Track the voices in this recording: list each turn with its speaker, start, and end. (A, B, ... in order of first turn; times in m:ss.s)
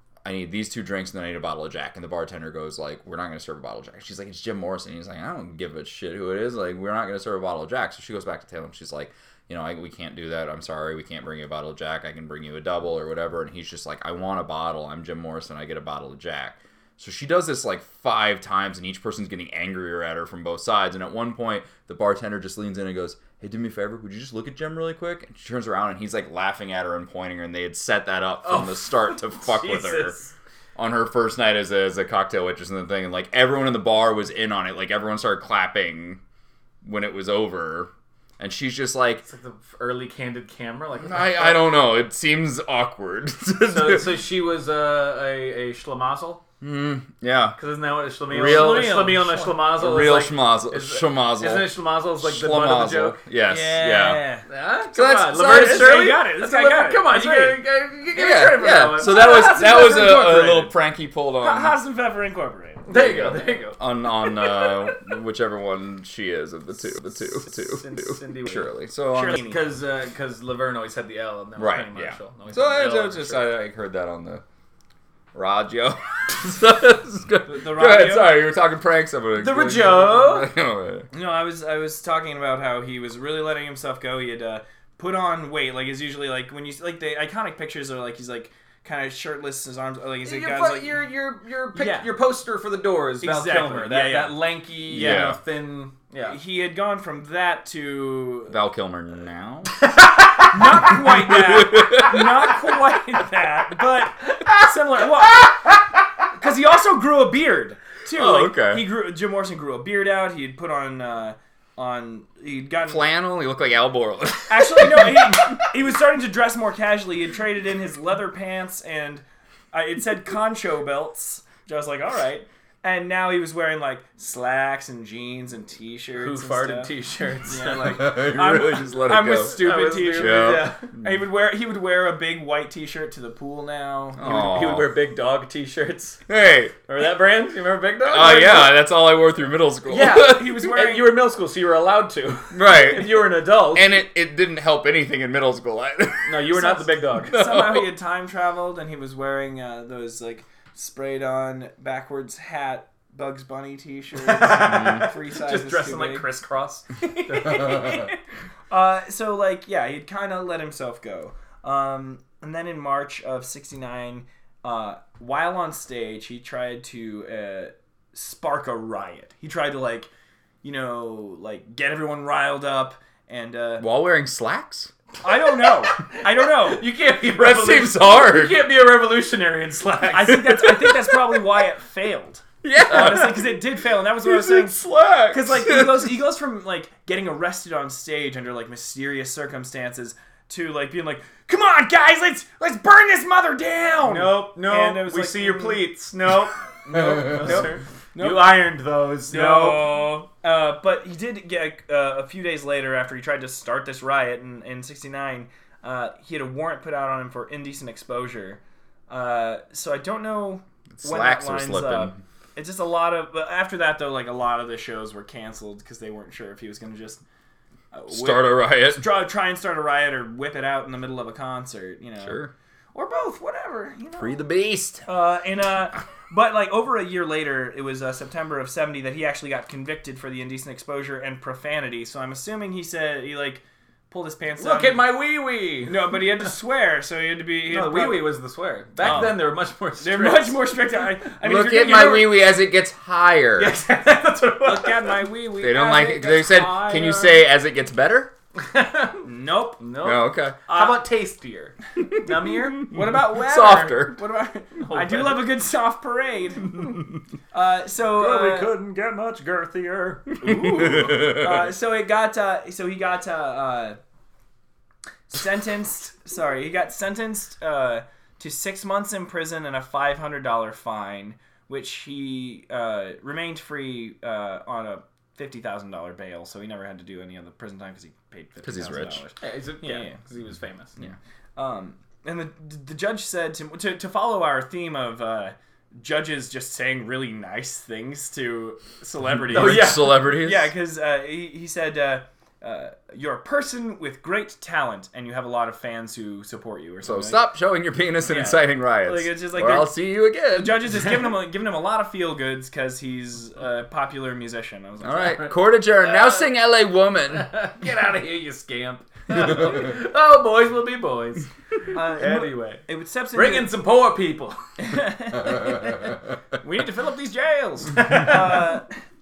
0:00.2-0:30.2 A
0:28.4-0:30.3 B
0:30.8-0:36.2 A
0:36.8-0:39.2 A
0:39.2-0:41.8 B
0:41.0-0:44.2 A
0:43.7-0:46.4 B
0:46.6-0:47.6 A
0:47.6-0:53.2 B
0:48.3-0:49.2 A
0:48.3-0:49.7 C
0:49.7-0:54.2 A
0:53.5-0:54.4 C
0:54.5-1:00.7 B
0:54.9-0:56.1 A
0:55.3-0:57.6 C
0:58.1-1:01.8 A
0:59.0-1:00.6 C
1:01.4-1:02.9 C
1:02.9-1:04.9 B
1:02.9-1:09.4 A
1:07.3-1:08.7 B
1:09.1-1:09.7 C
1:09.3-1:13.5 B
1:11.6-1:14.4 A
1:15.3-1:21.1 A
1:17.4-1:18.5 C
1:19.4-1:20.5 B
1:21.1-1:31.1 C
1:30.2-1:36.4 B
1:31.7-1:32.1 C
1:33.2-1:34.6 C
1:34.9-1:35.4 A
1:36.3-1:38.6 C
1:38.5-1:39.8 A
1:39.8-1:40.9 B
1:40.5-1:45.6 C
1:41.3-1:42.4 A
1:46.3-1:53.0 C
1:48.1-1:48.8 A
1:52.8-1:55.3 A
1:54.5-2:14.2 C
2:06.2-2:08.0 B
2:07.8-2:09.6 A
2:09.5-2:10.9 B
2:10.1-2:11.0 A
2:14.2-2:14.9 A
2:14.2-2:16.2 B
2:16.3-2:16.8 A
2:16.9-2:18.8 B
2:18.0-2:20.7 A
2:19.9-2:24.0 B
2:19.9-2:21.2 C
2:22.5-2:26.5 A
2:26.2-2:27.4 B
2:26.5-2:36.3 C
2:27.3-2:27.9 A
2:34.2-2:38.1 B
2:37.0-2:38.2 C
2:38.7-2:50.1 C
2:50.6-2:53.8 C
2:53.8-2:54.9 A
2:55.2-2:56.9 C
2:56.1-3:00.5 B
2:57.3-2:58.6 A
3:00.1-3:15.9 C
3:02.6-3:03.6 A
3:04.2-3:06.1 A
3:14.0-3:20.0 B
3:16.9-3:18.6 C
3:19.3-3:37.2 C
3:31.0-3:32.2 A
3:37.9-3:42.4 C
3:38.1-3:39.0 A
3:42.2-3:42.5 A
3:42.9-3:44.4 C
3:44.2-3:45.0 A
3:45.1-3:55.1 C
3:54.6-3:56.1 B
3:55.9-3:58.3 C
3:57.7-4:00.6 B
3:59.0-3:59.4 C
4:00.0-4:02.4 C
4:01.4-4:03.7 A
4:03.6-4:05.2 B
4:04.6-4:07.5 C
4:05.6-4:08.3 A
4:08.6-4:09.3 B
4:09.2-4:09.8 C
4:09.8-4:13.2 B
4:10.0-4:10.6 A
4:10.7-4:11.0 C
4:12.8-4:17.0 C
4:12.9-4:14.2 A
4:14.8-4:15.5 B
4:17.5-4:18.7 C
4:18.2-4:21.2 B
4:20.4-4:24.0 C
4:21.0-4:21.4 A
4:25.3-4:40.2 C
4:38.6-4:39.2 A
4:39.4-4:41.0 B
4:41.6-4:57.4 C
4:49.5-4:50.7 A
4:49.5-4:50.2 B
4:57.0-5:01.0 A
4:58.3-5:05.6 C
5:05.0-5:07.5 A
5:06.0-5:06.5 B
5:07.3-5:14.6 B
5:11.9-5:13.7 C
5:14.8-5:18.9 C